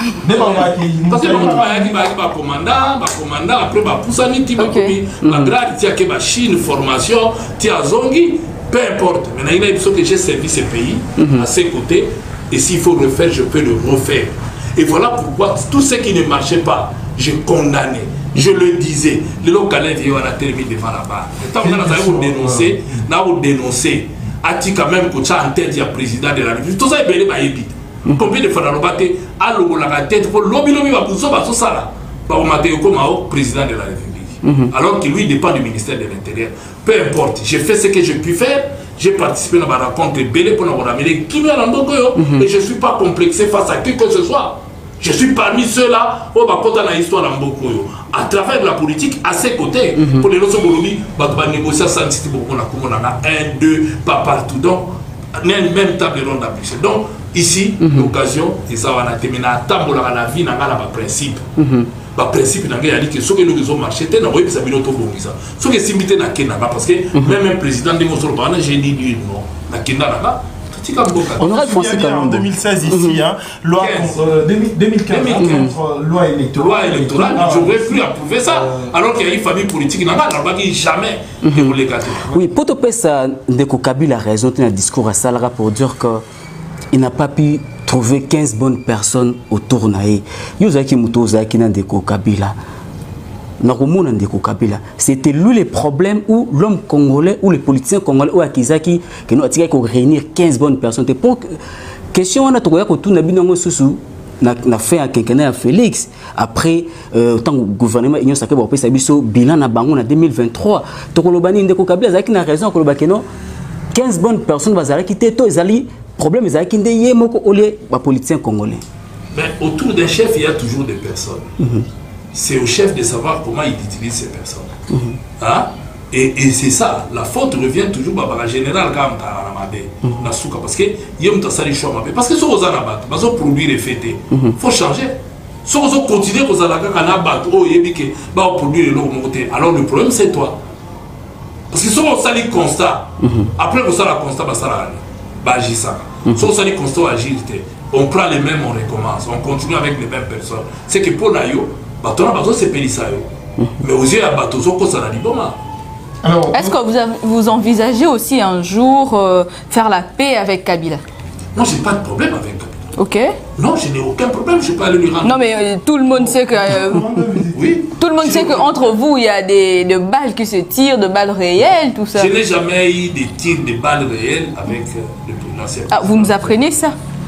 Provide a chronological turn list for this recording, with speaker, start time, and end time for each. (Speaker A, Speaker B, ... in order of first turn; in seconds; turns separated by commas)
Speaker A: 0.2-1.9, Speaker B: 0.3-61.5, Speaker C: 4.6-5.0, Speaker D: 5.2-5.5, Speaker D: 11.2-11.5, Speaker A: 21.5-23.1, Speaker D: 34.5-34.7, Speaker D: 42.2-42.5, Speaker D: 50.0-50.3, Speaker D: 57.8-58.1, Speaker D: 61.6-61.9, Speaker B: 62.1-71.7, Speaker D: 71.4-73.2, Speaker A: 71.5-78.9, Speaker B: 73.8-74.2, Speaker B: 75.1-75.8, Speaker D: 75.4-75.8, Speaker B: 76.6-82.5, Speaker D: 81.4-86.2, Speaker D: 86.9-92.6, Speaker D: 93.6-101.6, Speaker D: 102.1-113.3, Speaker D: 113.9-118.8, Speaker B: 119.3-121.5, Speaker D: 121.6-121.9, Speaker B: 122.3-124.7, Speaker D: 124.9-125.2, Speaker B: 125.4-140.6, Speaker B: 141.7-153.3, Speaker D: 143.2-143.5, Speaker B: 153.8-155.6, Speaker A: 156.2-156.8, Speaker C: 156.5-161.0, Speaker B: 161.6-162.8, Speaker C: 163.0-163.4, Speaker B: 163.6-165.4, Speaker C: 165.2-167.1, Speaker A: 166.1-167.8, Speaker B: 167.5-168.9, Speaker C: 168.0-172.3, Speaker B: 172.1-176.6, Speaker C: 175.9-176.9